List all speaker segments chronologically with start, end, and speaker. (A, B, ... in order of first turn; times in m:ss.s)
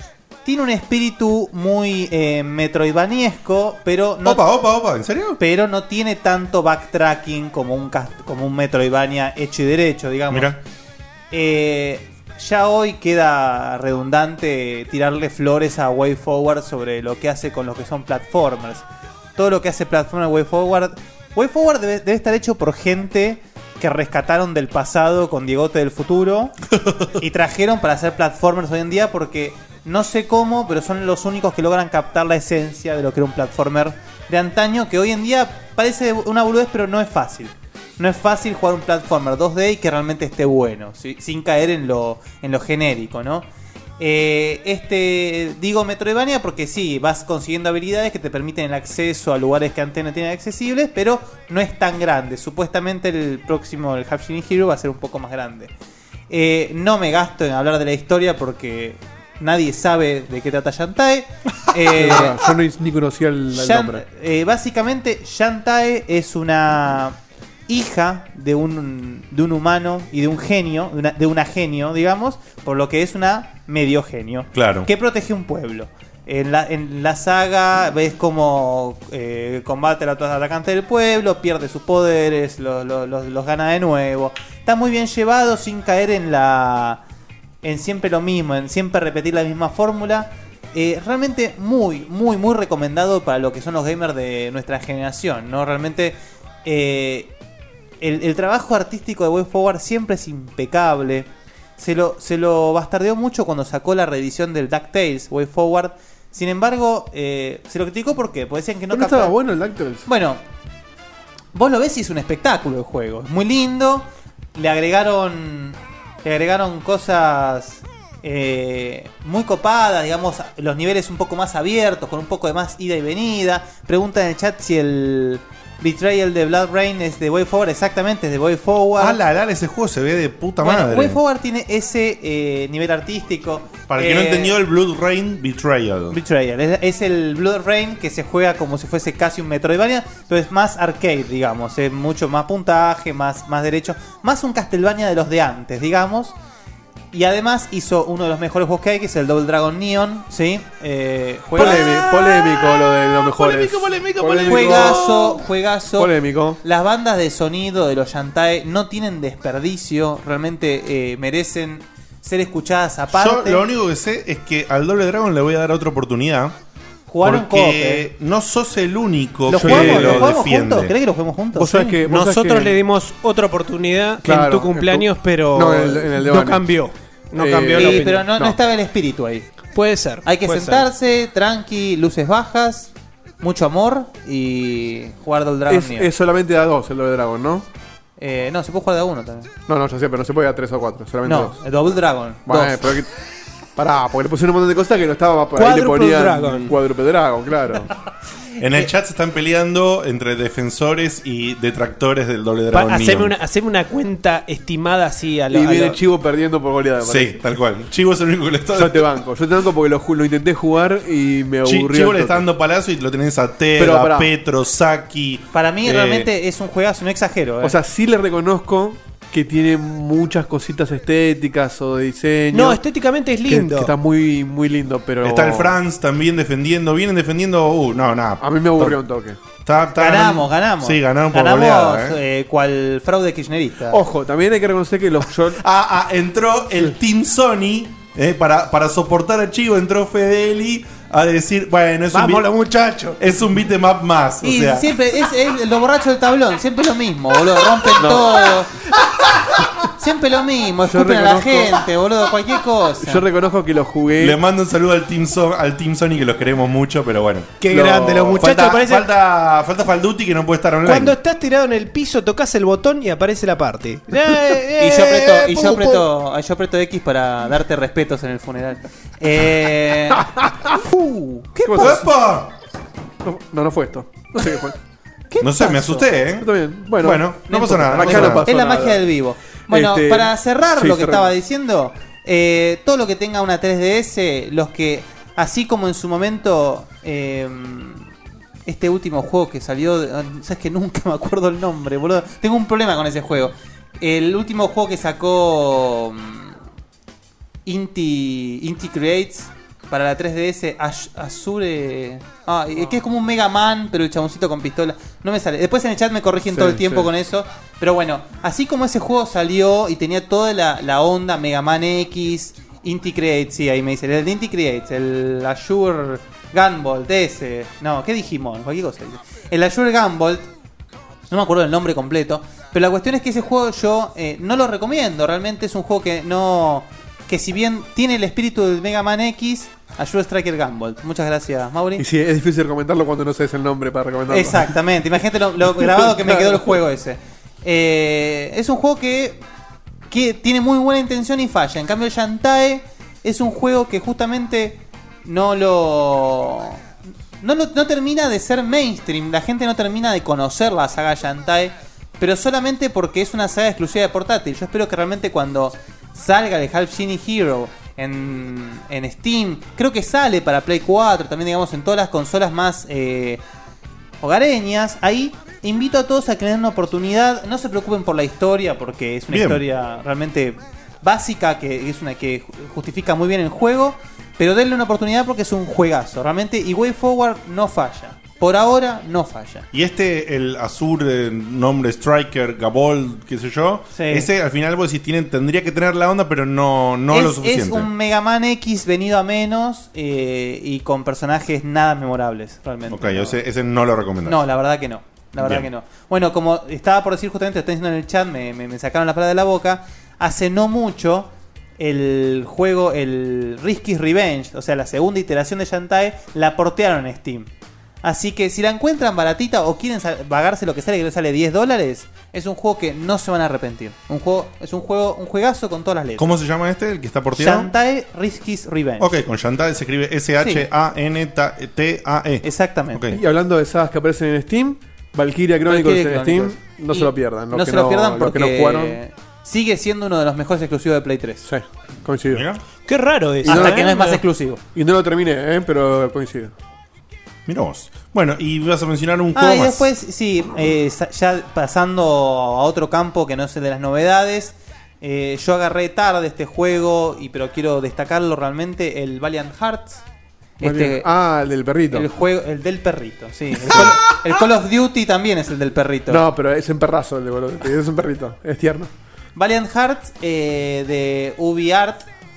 0:00.4-0:04.4 A
0:04.2-0:05.4 B
0:05.4-0:10.6 A
0:10.3-0:10.6 B
0:11.3-0:18.8 A
0:19.4-0:26.6 A
0:27.2-0:43.5 A
0:44.0-0:55.7 A
0:56.3-1:02.4 A
1:01.9-1:04.0 C
1:03.5-1:07.2 A
1:07.7-1:27.0 A
1:14.5-1:14.9 B
1:27.6-1:37.3 A
1:38.0-1:49.4 A
1:48.9-1:50.1 C
1:50.1-1:50.4 A
1:51.5-2:09.2 A
2:09.0-2:11.2 B
2:10.6-2:14.6 A
2:13.9-2:16.2 B
2:16.1-2:26.3 A
2:27.1-2:31.8 A
2:31.6-2:35.0 C
2:31.6-2:35.4 B
2:34.5-2:43.7 A
2:36.0-2:36.6 C
2:43.1-2:46.6 B
2:47.1-2:48.1 A
2:47.2-2:50.9 B
2:49.5-2:50.2 D
2:49.5-2:52.0 A
2:51.6-2:52.8 C
2:52.1-2:58.3 D
2:54.2-2:56.8 C
2:57.4-2:58.6 C
2:57.7-2:59.5 A
2:59.7-3:00.9 D
3:00.2-3:06.1 A
3:05.7-3:07.7 C
3:08.2-3:09.5 A
3:09.7-3:11.6 C
3:11.2-3:12.9 A
3:12.5-3:13.1 C
3:13.8-3:17.9 C
3:15.6-3:16.8 D
3:18.6-3:23.3 B
3:22.7-3:26.0 D
3:25.5-3:27.4 C
3:27.0-3:29.1 B
3:28.8-3:32.4 C
3:31.6-3:36.3 B
3:33.8-3:34.3 C
3:35.5-3:37.8 A
3:37.6-3:42.8 C
3:42.5-3:43.9 D
3:43.5-3:45.8 C
3:45.2-3:49.0 B
3:48.4-3:49.4 C
3:49.6-3:52.2 B
3:50.0-3:54.0 A
3:53.9-3:55.6 C
3:55.6-4:02.5 B
4:02.1-4:03.2 D
4:03.2-4:04.9 B
4:04.4-4:08.7 A
4:07.9-4:08.5 C
4:09.9-4:13.2 A
4:10.9-4:11.8 C
4:13.0-4:14.4 C
4:14.2-4:21.2 B
4:17.6-4:19.1 D
4:17.7-4:18.4 C
4:20.8-4:25.2 D
4:24.8-4:31.8 A
4:24.9-4:26.1 B
4:30.4-4:30.7 C
4:31.6-4:32.0 C
4:31.8-4:32.5 B
4:33.2-4:34.8 C
4:35.3-4:36.1 A
4:35.4-4:38.5 B
4:36.4-4:39.1 C
4:37.5-4:48.1 A
4:39.7-4:41.3 C
4:48.7-4:56.6 A
4:57.7-5:20.5 A
5:06.5-5:07.1 C
5:21.3-5:32.0 A
5:32.0-5:34.7 C
5:34.3-5:39.4 A
5:35.8-5:36.6 C
5:40.1-5:46.8 A
5:47.4-6:03.4 A
6:04.2-6:19.7 A
6:09.3-6:09.6 B
6:19.7-6:27.9 B
6:23.9-6:24.3 A
6:27.1-6:33.4 A
6:32.9-6:34.4 B
6:34.3-6:47.5 A
6:35.4-6:35.7 B
6:48.0-6:56.3 A
6:56.2-6:57.7 B
6:57.4-6:59.1 A
6:59.0-7:03.2 B
7:00.4-7:00.7 A
7:02.4-7:03.0 A
7:03.1-7:09.0 C
7:05.7-7:11.4 A
7:11.5-7:12.4 C
7:12.3-7:12.6 B
7:12.9-7:14.2 D
7:13.4-7:14.6 A
7:13.4-7:13.9 C
7:14.7-7:16.6 C
7:17.5-7:19.9 B
7:19.4-7:30.0 A
7:30.6-7:31.1 A
7:30.6-7:32.1 C
7:31.9-7:36.2 A
7:33.6-7:34.2 C
7:36.1-7:38.9 C
7:39.4-7:42.0 A